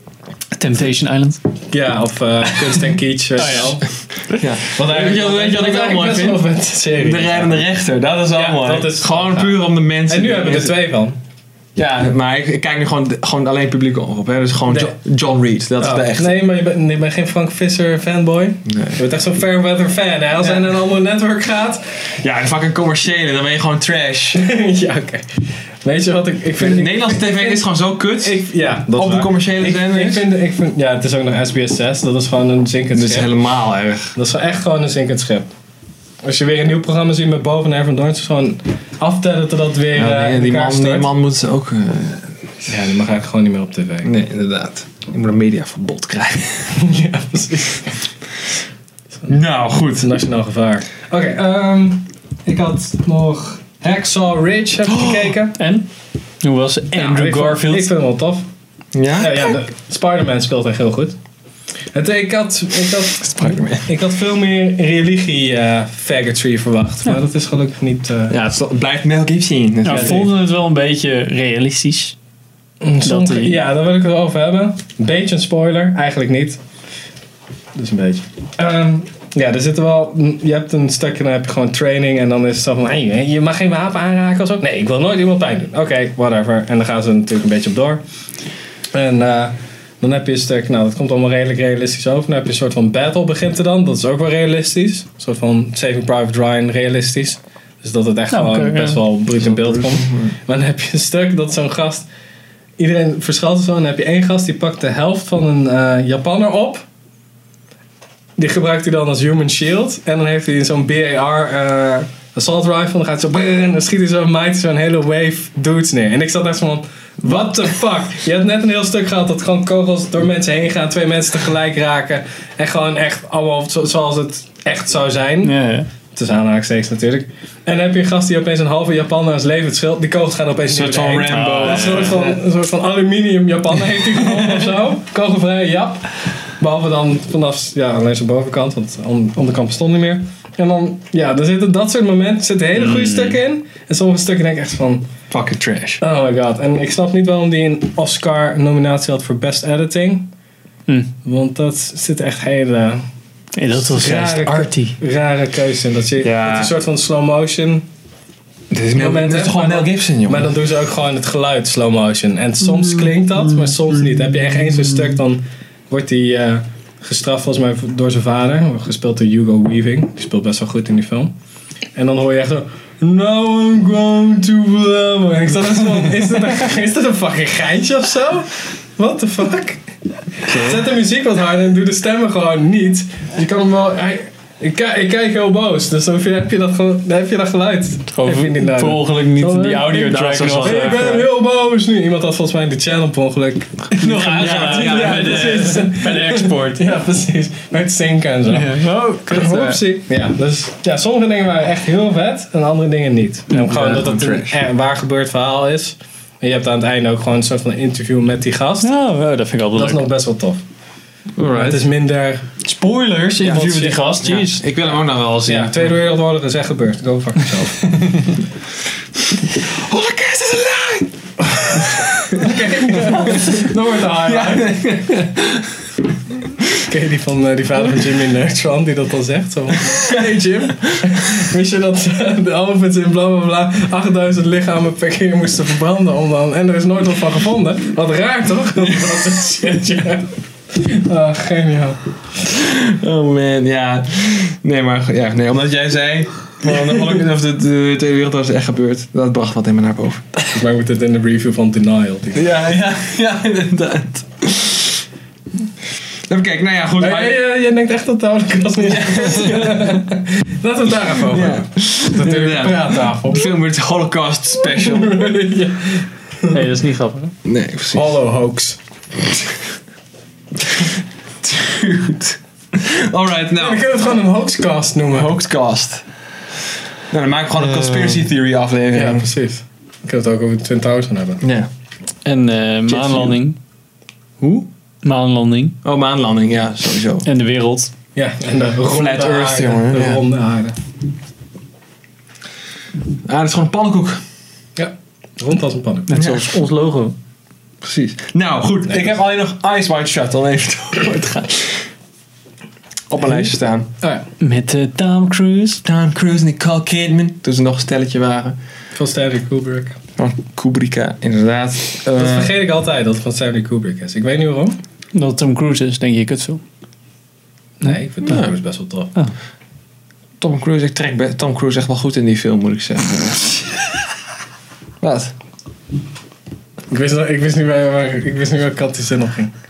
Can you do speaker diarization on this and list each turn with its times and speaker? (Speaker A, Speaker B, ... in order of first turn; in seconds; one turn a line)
Speaker A: 0.5-1.4
Speaker B: 1.7-3.9
Speaker A: 3.4-4.4
Speaker C: 4.3-10.7
Speaker B: 4.6-7.6
Speaker B: 8.3-11.2
Speaker C: 11.7-16.4
Speaker B: 14.7-14.9
Speaker B: 15.8-22.0
Speaker C: 18.6-19.0
Speaker C: 22.2-24.4
Speaker B: 24.3-27.6
Speaker C: 26.6-28.4
Speaker B: 28.2-33.3
Speaker C: 28.9-30.2
Speaker C: 32.9-34.1
Speaker B: 34.1-35.5
Speaker B: 36.2-41.1
Speaker C: 39.9-42.4
Speaker B: 42.7-44.1
Speaker C: 44.0-46.8
Speaker B: 46.7-48.0
Speaker C: 49.3-50.1
Speaker B: 50.0-55.6
Speaker C: 54.9-55.3
Speaker A: 55.6-55.9
Speaker A: 56.4-57.9
Speaker B: 56.9-58.5
Speaker C: 58.9-59.5
Speaker B: 59.2-61.2
Speaker B: 61.9-68.3
Speaker C: 63.2-63.9
Speaker C: 68.3-70.3
Speaker A: 69.8-72.1
Speaker B: 72.8-76.6
Speaker A: 73.0-73.6
Speaker B: 77.7-88.0
Speaker B: 88.9-102.1
Speaker A: 98.3-99.0
Speaker C: 99.3-100.3
Speaker B: 102.8-106.8
Speaker B: 108.4-125.5
Speaker A: 125.4-125.9
Speaker B: 126.1-145.1
Speaker C: 130.7-132.3
Speaker A: 131.2-132.3
Speaker A: 142.8-143.3
Speaker C: 145.3-146.0
Speaker B: 146.0-150.3
Speaker B: 151.2-153.0
Speaker A: 153.6-154.9
Speaker B: 153.8-157.8
Speaker C: 156.2-156.7
Speaker C: 158.7-160.5
Speaker B: 158.9-171.3
Speaker B: 171.9-179.8
Speaker B: 180.4-208.9
Speaker C: 180.4-180.8
Speaker A: 188.1-191.1
Speaker C: 190.0-191.3
Speaker A: 194.0-196.9
Speaker C: 194.0-195.7
Speaker A: 198.5-199.8
Speaker C: 203.5-204.6
Speaker A: 208.8-210.1
Speaker B: 209.7-210.6
Speaker C: 211.4-211.8
Speaker B: 211.5-212.5
Speaker A: 212.6-214.6
Speaker C: 213.4-215.9
Speaker B: 213.7-213.9
Speaker B: 215.4-218.3
Speaker C: 219.5-221.1
Speaker B: 221.5-224.8
Speaker C: 221.7-225.7
Speaker B: 226.8-242.0
Speaker C: 229.9-230.2
Speaker C: 242.4-250.3
Speaker B: 250.5-252.5
Speaker C: 252.3-255.0
Speaker C: 256.3-257.4
Speaker B: 257.0-263.5
Speaker C: 258.8-260.0
Speaker C: 261.1-265.2
Speaker B: 264.7-266.6
Speaker A: 266.5-267.3
Speaker C: 267.4-268.1
Speaker B: 267.9-268.8
Speaker C: 270.6-273.8
Speaker B: 273.6-275.3
Speaker C: 275.1-276.0
Speaker C: 277.1-279.3
Speaker B: 278.9-281.4
Speaker C: 281.4-281.7
Speaker A: 282.2-283.6
Speaker C: 282.9-283.4
Speaker C: 284.4-284.7
Speaker A: 285.0-285.8
Speaker C: 285.8-287.3
Speaker A: 287.2-287.9
Speaker B: 288.1-290.8
Speaker C: 288.8-290.2
Speaker C: 293.2-294.2
Speaker B: 294.8-296.2
Speaker A: 296.1-297.1
Speaker C: 296.1-296.6
Speaker C: 297.8-301.9
Speaker C: 303.1-303.9
Speaker A: 304.4-305.8
Speaker C: 305.8-308.6
Speaker B: 308.9-310.0
Speaker C: 310.2-312.5
Speaker B: 312.1-314.8
Speaker A: 315.1-316.6
Speaker B: 317.8-319.1
Speaker C: 318.2-318.5
Speaker C: 320.4-324.0
Speaker C: 325.0-325.3
Speaker B: 326.9-329.5